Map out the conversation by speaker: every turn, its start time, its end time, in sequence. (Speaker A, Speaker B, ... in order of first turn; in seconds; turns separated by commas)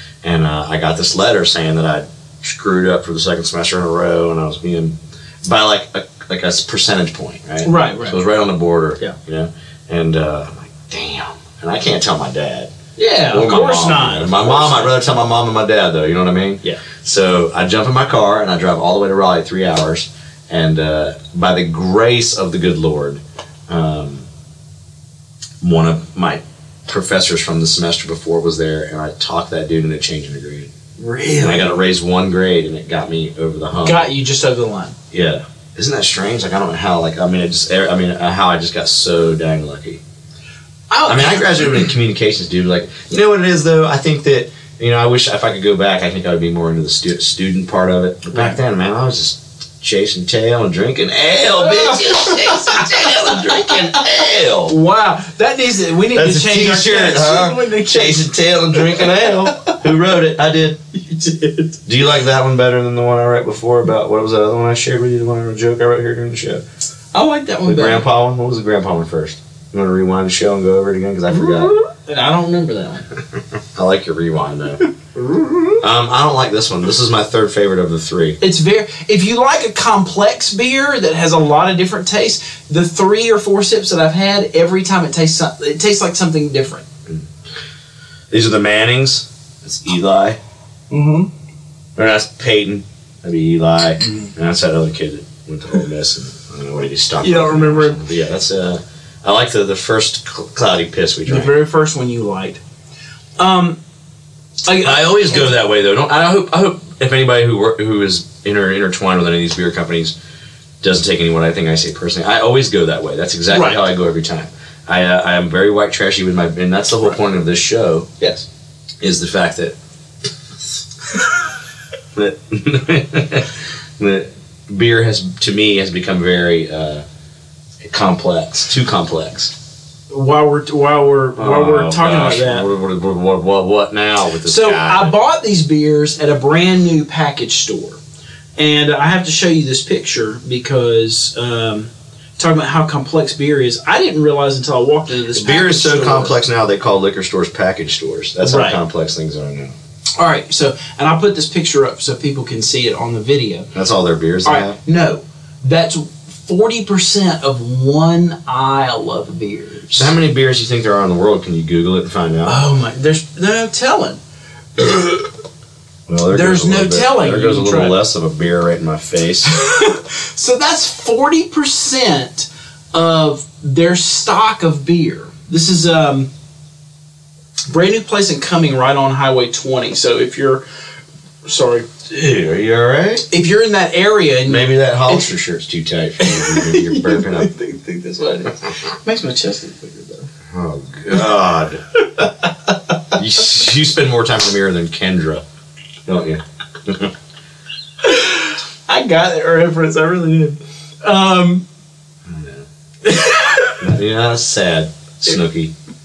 Speaker A: 0.2-12.7, Speaker B: 7.6-8.2, Speaker B: 13.0-14.9, Speaker A: 13.3-24.3, Speaker A: 25.6-30.7, Speaker B: 31.0-31.8, Speaker A: 31.4-34.1, Speaker B: 33.8-35.0, Speaker A: 35.1-40.0, Speaker B: 40.9-41.8, Speaker A: 41.0-54.7, Speaker B: 48.3-48.6, Speaker B: 51.5-59.8, Speaker A: 56.1-60.8, Speaker B: 60.9-61.8, Speaker A: 61.9-66.6, Speaker B: 67.1-68.0, Speaker A: 67.6-71.7, Speaker B: 71.3-73.1, Speaker A: 73.7-74.8, Speaker B: 75.1-75.8, Speaker A: 75.8-78.4, Speaker B: 78.4-86.8, Speaker A: 88.3-90.4, Speaker B: 90.9-91.3, Speaker A: 92.0-101.5, Speaker B: 94.0-94.3, Speaker B: 97.2-98.0, Speaker B: 101.2-102.6, Speaker B: 103.4-103.8, Speaker B: 104.6-105.5, Speaker A: 104.8-110.1, Speaker A: 110.8-118.1, Speaker B: 113.5-113.8, Speaker B: 118.2-118.5, Speaker A: 119.0-119.7, Speaker A: 122.1-127.0, Speaker A: 127.8-129.5, Speaker B: 130.1-132.7, Speaker A: 131.3-135.1, Speaker B: 134.4-138.0, Speaker B: 138.6-146.3, Speaker A: 145.3-149.8, Speaker B: 148.4-148.8, Speaker B: 150.2-153.7, Speaker A: 153.7-154.8, Speaker B: 154.4-160.1, Speaker A: 159.9-162.6, Speaker B: 162.4-164.2, Speaker B: 164.8-165.3, Speaker A: 166.1-169.5, Speaker B: 166.3-168.0, Speaker B: 169.4-176.3, Speaker B: 177.7-180.6, Speaker B: 181.4-181.9, Speaker A: 182.1-183.2, Speaker B: 183.3-185.3, Speaker A: 184.4-187.5, Speaker B: 186.2-190.3, Speaker A: 190.5-191.8, Speaker B: 192.2-192.7, Speaker A: 193.1-195.4, Speaker A: 196.1-197.1, Speaker B: 198.0-201.6, Speaker A: 202.2-202.6, Speaker B: 203.0-203.8, Speaker A: 203.8-205.7